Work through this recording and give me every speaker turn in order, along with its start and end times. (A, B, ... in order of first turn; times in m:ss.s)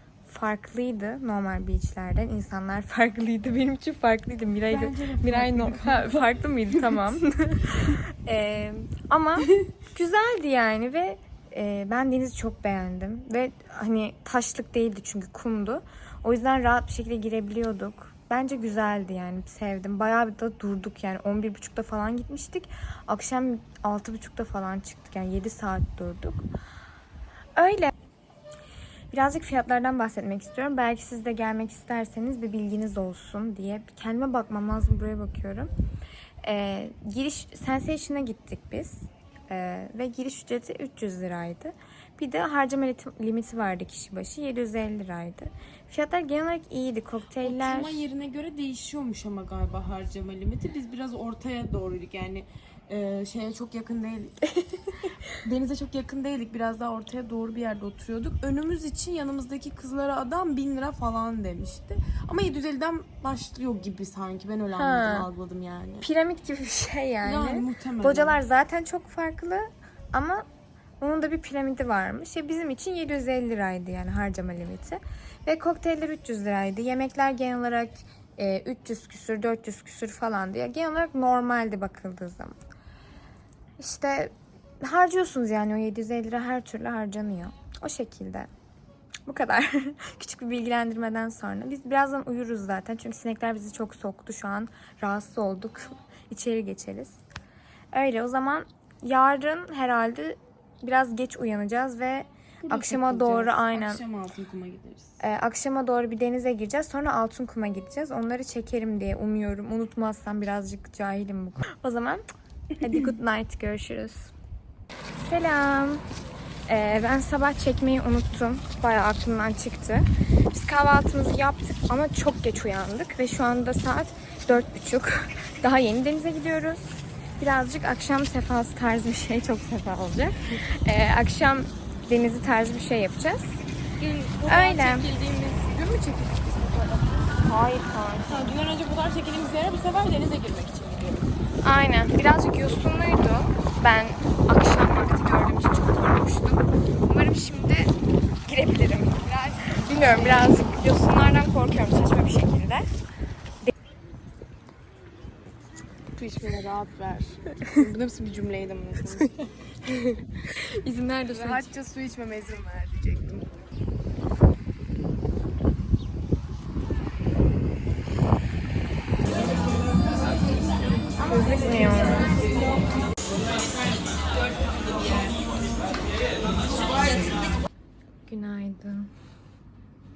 0:00.2-0:26.5 A
0:04.7-0:07.0 B
0:27.6-0:27.9 A
0:29.1-0:35.7 A
0:36.4-0:48.0 A
0:47.4-0:54.4 B
0:55.3-1:06.1 B
1:04.7-1:05.2 A
1:06.0-1:10.4 A
1:07.2-1:08.4 B
1:11.0-1:22.6 A
1:23.8-1:28.5 A
1:29.2-1:37.2 A
1:37.9-1:44.0 A
1:42.6-1:45.2 B
1:45.2-1:52.2 A
1:52.8-1:54.3 A
1:55.1-1:56.0 A
1:56.7-2:13.6 A
2:14.0-2:17.4 B
2:14.5-2:15.1 A
2:17.4-2:18.6 A
2:18.3-2:21.3 B
2:21.6-2:32.9 A
2:29.6-2:30.6 B
2:36.2-2:40.0 B
2:40.4-2:41.7 A
2:41.3-2:43.5 B
2:51.2-2:52.3 A
2:58.3-2:59.1 A